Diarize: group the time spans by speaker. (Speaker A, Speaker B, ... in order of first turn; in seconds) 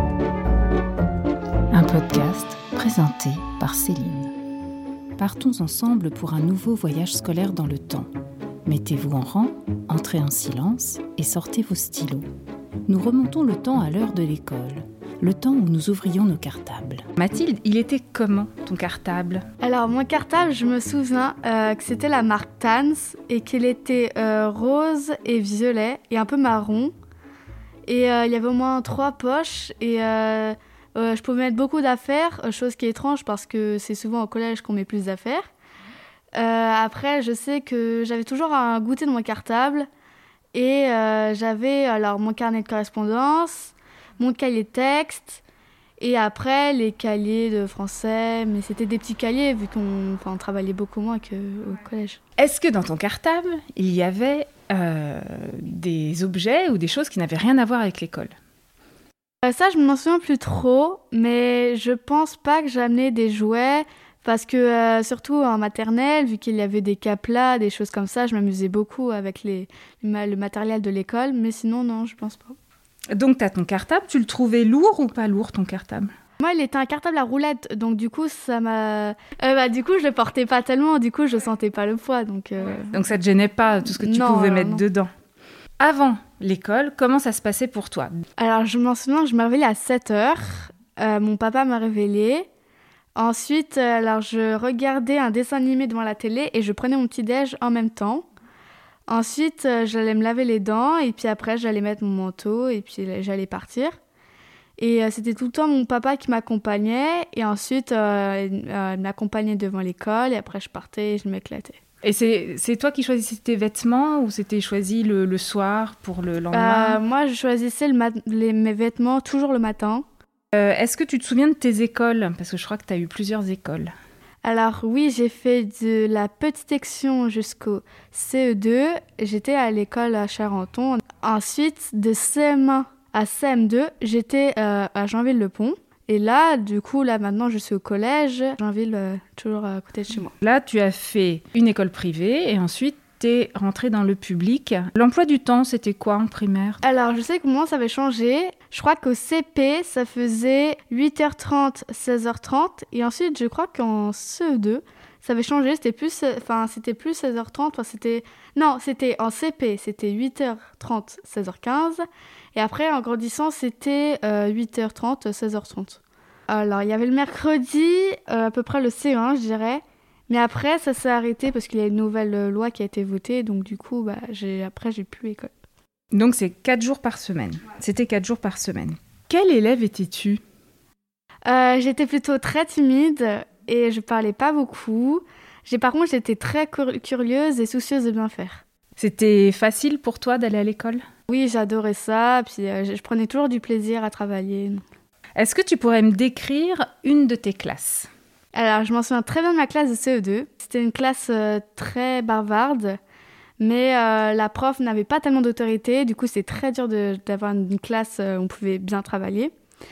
Speaker A: 1.7-3.7, 5.2-8.1, 8.7-11.2, 17.1-19.4, 52.4-58.3, 73.1-76.1, 82.9-85.1, 85.8-88.1, 112.0-117.0, 120.5-123.9, 140.3-146.8, 176.1-180.4, 189.0-191.0, 195.3-198.1
Speaker B: 3.2-4.3, 8.7-12.2, 12.9-17.0
Speaker C: 19.6-26.9, 27.9-35.5, 36.3-39.9, 40.5-45.4, 46.0-52.2, 59.4-72.5, 76.4-83.0, 83.9-84.8, 88.4-92.5, 93.2-98.2, 99.1-104.0, 104.8-111.8, 116.5-120.0, 124.4-140.3, 146.8-162.0, 162.5-175.5, 181.4-188.6, 191.3-194.8, 198.5-203.0, 203.6-209.5